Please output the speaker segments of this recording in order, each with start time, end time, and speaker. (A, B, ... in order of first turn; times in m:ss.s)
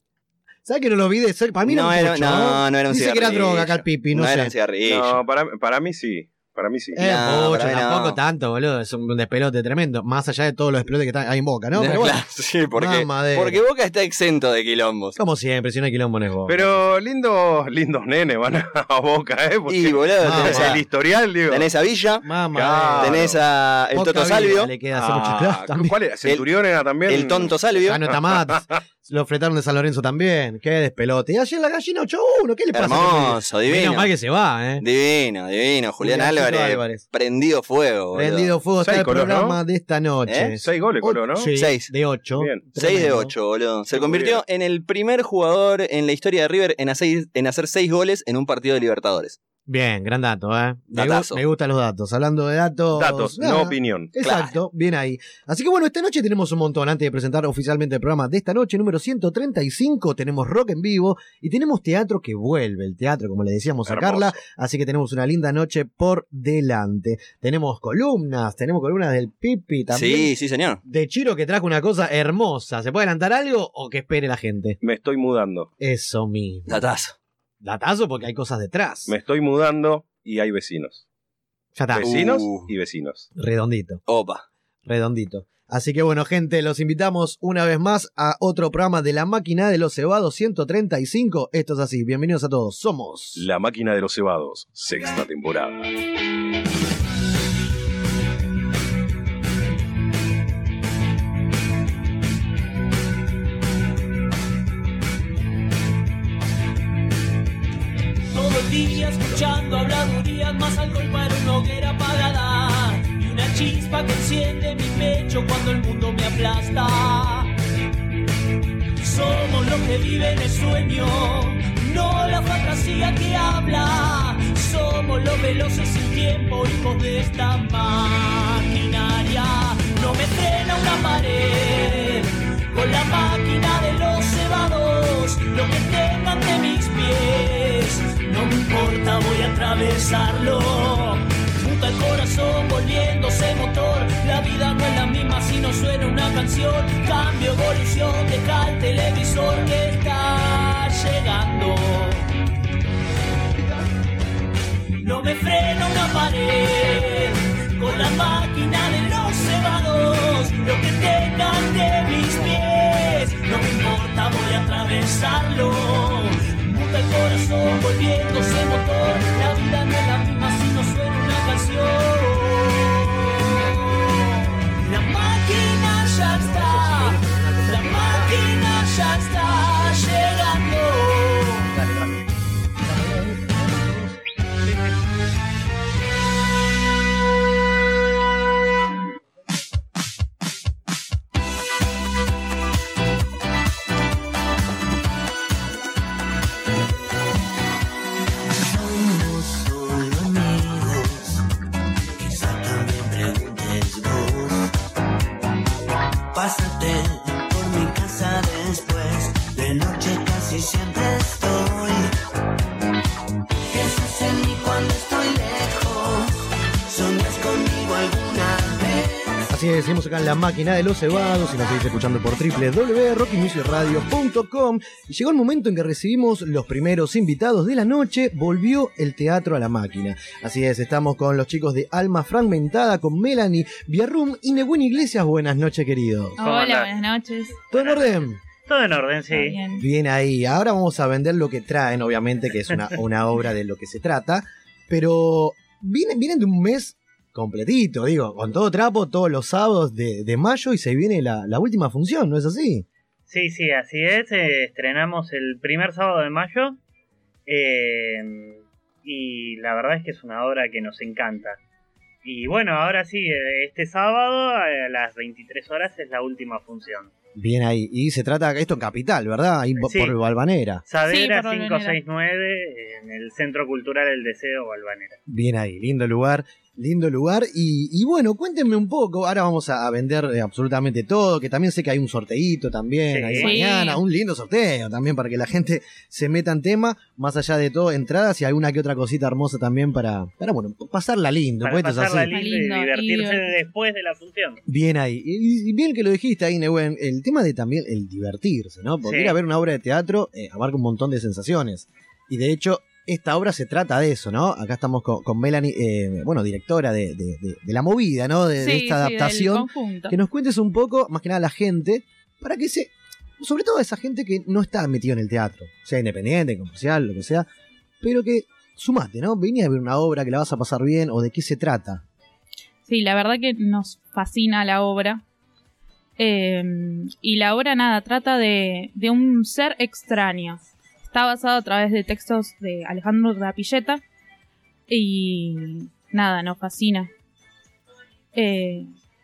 0:00.6-0:04.5 A
0:01.6-0:05.2 B
0:04.8-0:07.0 C
0:06.9-0:12.2 A
0:07.0-0:08.2 B
0:11.7-0:15.2 B
0:12.8-0:13.6 A
0:15.2-0:16.8 A
0:16.5-0:21.7 C
0:19.7-0:20.8 B
0:20.2-0:20.8 A
0:21.5-0:22.3 B
0:22.2-0:23.3 A
0:22.5-0:23.4 C
0:23.0-0:24.7 B
0:23.9-0:26.0 A
0:24.9-0:28.6 C
0:27.1-0:28.0 B
0:27.8-0:34.8 A
0:32.7-0:34.1 B
0:34.8-0:38.5 B
0:36.0-0:37.0 A
0:38.1-0:43.3 A
0:38.8-0:39.6 C
0:40.3-0:40.5 B
0:40.6-0:41.5 C
0:41.5-0:41.9 B
0:42.4-0:42.6 C
0:42.8-0:49.4 B
0:43.9-0:44.4 C
0:49.6-1:10.3 A
0:50.9-0:51.4 B
0:52.9-0:54.1 C
0:54.2-0:54.5 B
1:03.8-1:04.4 C
1:09.9-1:10.8 B
1:10.8-1:14.8 A
1:14.8-1:15.7 C
1:15.8-1:16.8 A
1:16.7-1:17.2 B
1:17.6-1:19.1 A
1:19.1-1:21.0 C
1:21.7-1:22.2 A
1:21.9-1:23.3 C
1:22.0-1:22.7 B
1:23.4-1:24.0 A
1:24.1-1:24.4 B
1:24.8-1:33.4 A
1:33.4-1:35.9 C
1:48.3-1:57.5 D
1:59.0-2:32.2 D
2:35.0-2:54.1 D
2:54.8-3:01.7 D
2:56.3-2:58.4 A
3:01.7-3:02.0 A
3:02.8-3:04.2 A
3:18.5-3:21.4 E
3:22.1-3:24.8 E
3:26.3-3:32.1 E
3:33.7-3:39.5 E
3:39.5-3:56.4 A
3:56.4-3:57.7 F
3:56.4-3:56.9 G
3:57.7-3:58.4 A
3:57.7-3:59.6 G
3:59.3-3:59.8 F
3:59.7-4:12.8 A
4:13.3-4:16.8 G
4:17.5-4:21.6 G
4:22.2-4:27.1 G
4:27.3-4:30.8 A
4:29.8-4:30.2 G
4:30.8-4:35.2 G
4:31.0-4:32.0 F
4:35.3-4:52.3 A
4:43.1-4:43.5 G
4:43.4-4:44.0 F
4:51.6-4:54.6 G
4:52.3-4:53.5 F
4:54.6-5:17.5 A
4:59.0-4:59.4 G
5:08.6-5:10.2 F
5:18.0-5:22.0 A
5:22.8-5:25.2 F
5:26.2-5:34.0 F
5:34.9-5:37.1 F
5:38.3-5:38.9 F